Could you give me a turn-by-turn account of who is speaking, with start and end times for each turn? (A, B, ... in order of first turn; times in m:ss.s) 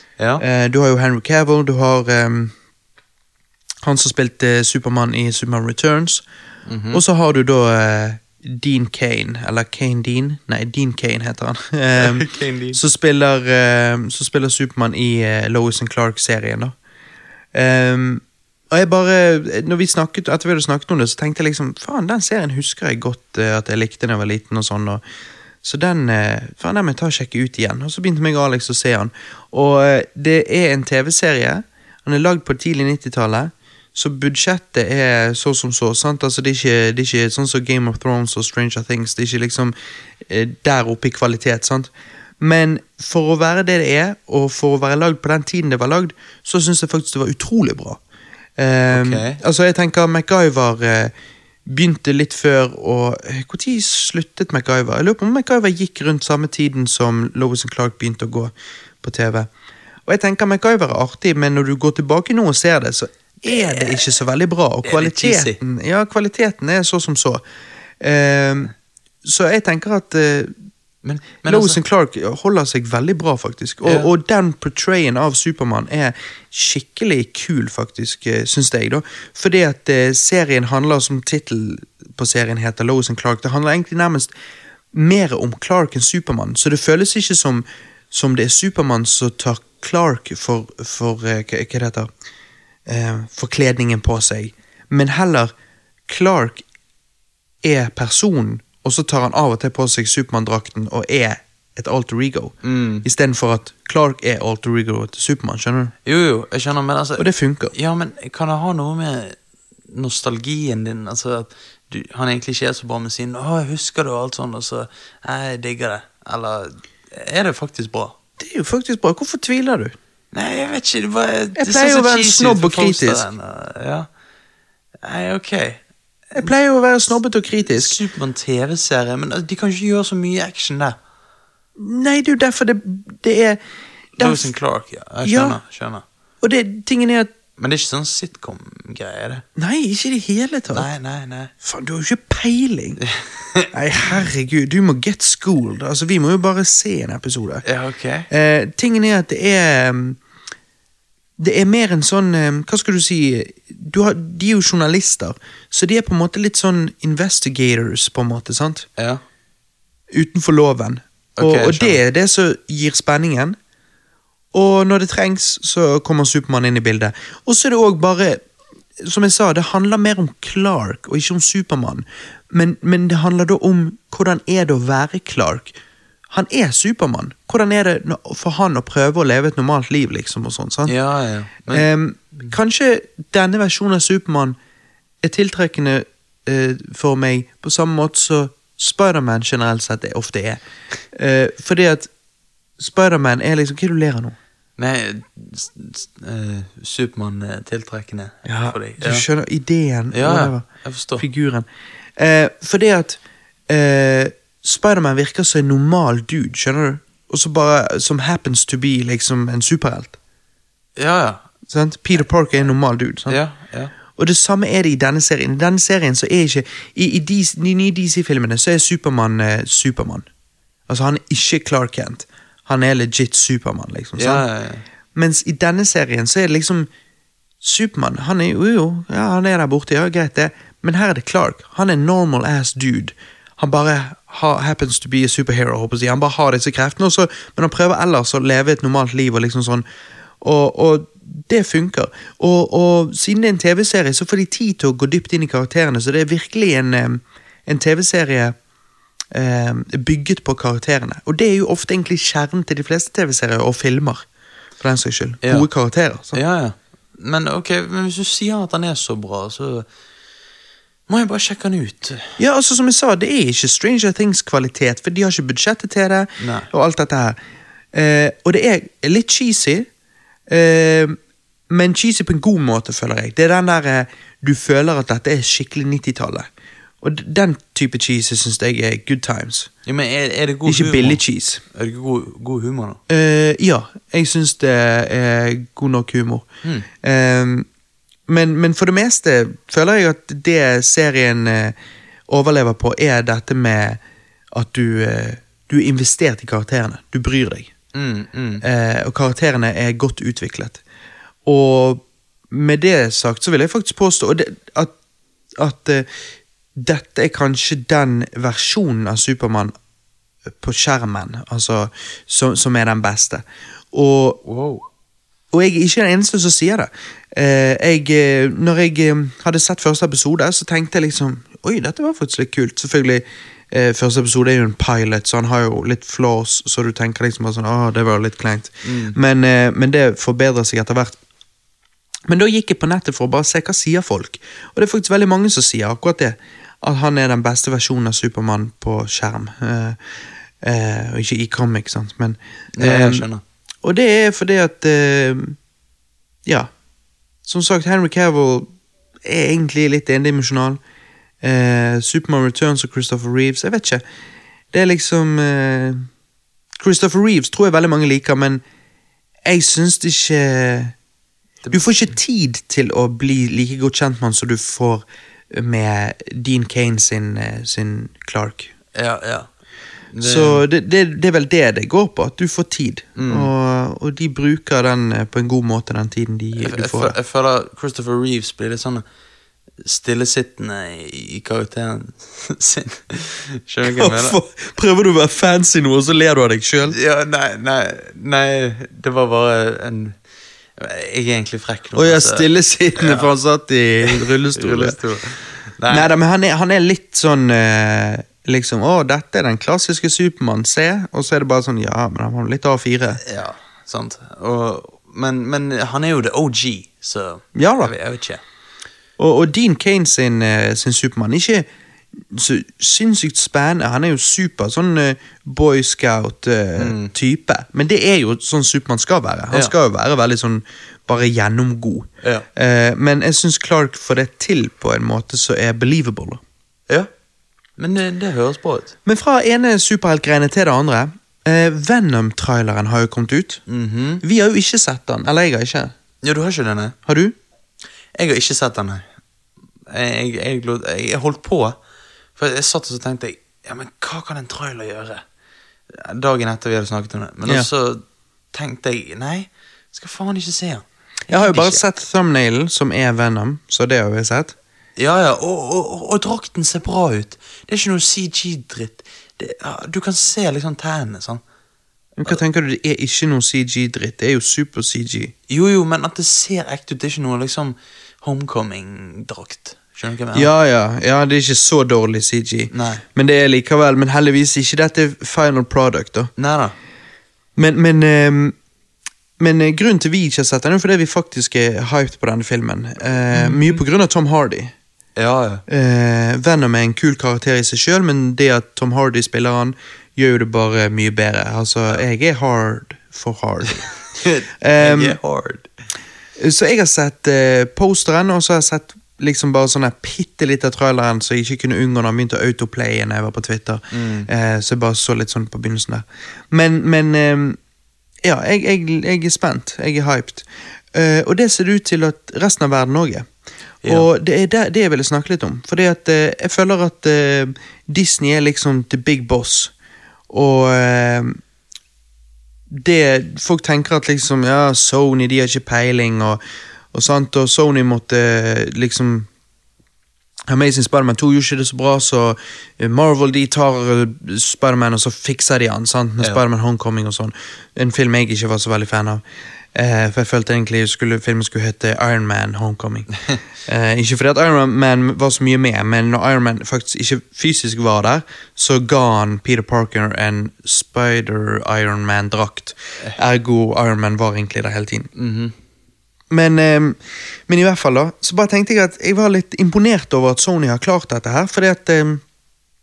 0:00.2-0:00.4 A
0:00.4-0:02.5 B
0:03.8-0:06.2 B
0:06.6-0:07.0 A
0:06.9-0:16.7 B
0:12.0-0:12.8 A
0:17.5-0:25.0 B
0:25.6-0:39.7 B
0:40.3-0:48.0 B
0:48.6-0:51.1 B
0:48.9-0:49.4 A
0:51.6-0:59.5 B
1:00.0-1:07.4 B
1:03.4-1:04.0 A
1:04.8-1:05.6 A
1:08.0-1:08.7 B
1:09.2-1:10.5 B
1:11.0-1:11.8 A
1:11.4-1:24.3 B
1:13.8-1:14.1 A
1:24.9-1:32.1 B
1:32.9-1:35.5 B
1:36.1-1:36.6 B
1:37.6-1:45.9 B
1:42.6-1:43.0 A
1:46.0-1:58.2 A
1:47.2-1:47.7 B
1:58.4-2:00.0 B
2:00.3-2:04.1 A
2:01.6-2:03.3 B
2:05.0-2:06.5 A
2:06.3-2:08.0 B
2:07.6-2:11.0 A
2:11.8-2:13.6 B
2:14.2-2:14.5 B
2:14.2-2:16.0 A
2:15.2-2:15.6 B
2:16.4-2:17.3 B
2:17.6-2:19.4 A
2:19.6-2:20.9 B
2:20.7-2:21.5 A
2:21.6-2:23.0 B
2:23.0-2:24.1 A
2:23.7-2:27.6 B
2:27.6-2:28.3 A
2:28.3-2:30.2 B
2:31.4-2:38.9 B
2:39.0-2:39.2 A
2:40.1-2:43.6 B
2:41.4-2:42.0 A
2:44.5-2:48.4 B
2:49.0-2:55.8 B
2:56.3-3:01.0 B
3:00.8-3:01.9 A
3:01.7-3:04.6 B
3:05.2-3:10.6 B
3:11.1-3:12.1 B
3:12.8-3:14.4 B
3:14.8-3:19.2 A
3:18.4-3:21.7 B
3:20.1-3:21.2 A
3:22.2-3:30.2 B
3:31.0-3:31.4 A
3:31.7-3:33.4 B
3:33.3-3:33.9 A
3:34.2-3:40.2 B
3:40.9-3:44.4 B
3:44.2-3:44.8 A
3:45.1-3:46.9 B
3:47.6-3:59.8 B
4:00.4-4:08.5 B
4:09.3-4:14.2 B
4:14.8-4:16.4 B
4:15.4-4:15.7 A
4:16.3-4:19.9 A
4:21.1-4:22.4 A
4:22.4-4:27.4 B
4:26.4-4:26.7 A
4:27.9-4:29.9 B
4:30.5-4:31.2 B
4:31.7-4:36.5 B
4:37.0-4:39.7 B
4:39.8-4:41.2 A
4:40.6-4:41.6 B
4:41.7-4:43.0 A
4:43.1-4:46.5 B
4:47.0-4:47.7 B
4:48.3-4:51.8 B
4:52.3-4:54.0 B
4:54.5-4:57.7 B
4:57.9-4:58.6 A
4:58.6-5:00.8 B
5:01.4-5:04.9 B
5:05.6-5:06.1 B
5:06.8-5:09.7 B
5:10.6-5:14.4 B
5:14.4-5:14.8 A
5:15.5-5:31.2 B
5:28.8-5:29.2 A
5:32.3-5:40.0 B
5:40.6-5:43.3 B
5:42.8-5:43.4 A
5:43.8-5:45.6 B
5:47.4-5:48.7 B
5:49.2-5:50.8 B
5:51.4-5:54.0 B
5:54.7-5:56.1 B
5:56.8-5:58.6 B
5:59.4-6:00.9 B
6:01.7-6:08.7 B
6:08.9-6:09.5 A
6:10.1-6:10.6 A
6:10.2-6:17.2 B
6:13.2-6:13.5 A
6:16.6-6:19.0 A
6:19.8-6:24.4 A
6:23.8-6:27.0 B
6:26.9-6:30.2 A
6:30.8-6:32.4 A
6:31.9-6:35.0 B
6:33.0-6:33.3 A
6:34.0-6:36.1 A
6:35.9-6:43.2 B
6:43.2-6:48.4 A
6:47.5-6:47.9 B
6:49.2-6:51.7 B
6:52.3-7:06.4 B
6:56.8-6:57.1 A
7:07.8-7:08.9 A
7:09.0-7:13.6 B
7:13.7-7:14.2 A
7:14.2-7:15.9 B
7:16.2-7:17.0 A
7:17.0-7:17.3 B
7:18.1-7:19.0 A
7:19.9-7:21.8 A
7:22.4-7:25.2 A
7:25.9-7:31.8 A
7:31.3-7:34.6 B
7:35.0-7:41.4 A
7:42.2-7:45.3 B
7:45.5-7:50.5 A
7:50.3-7:56.3 B
7:52.7-7:53.0 A
7:56.4-7:56.7 A
7:57.6-7:58.5 B
7:59.4-8:04.7 B
8:03.3-8:03.8 A
8:05.2-8:05.6 A
8:05.7-8:13.9 B
8:14.1-8:15.7 A
8:14.6-8:15.2 B
8:16.4-8:27.6 B
8:23.9-8:24.3 A
8:28.2-8:33.3 B
8:33.8-8:34.1 A
8:33.8-8:39.7 B
8:40.3-8:41.4 B
8:42.7-8:46.4 B
8:46.9-8:49.3 B
8:50.5-8:59.2 B
8:59.7-9:03.1 B
9:03.6-9:15.1 B
9:15.2-9:15.5 A
9:16.3-9:22.2 B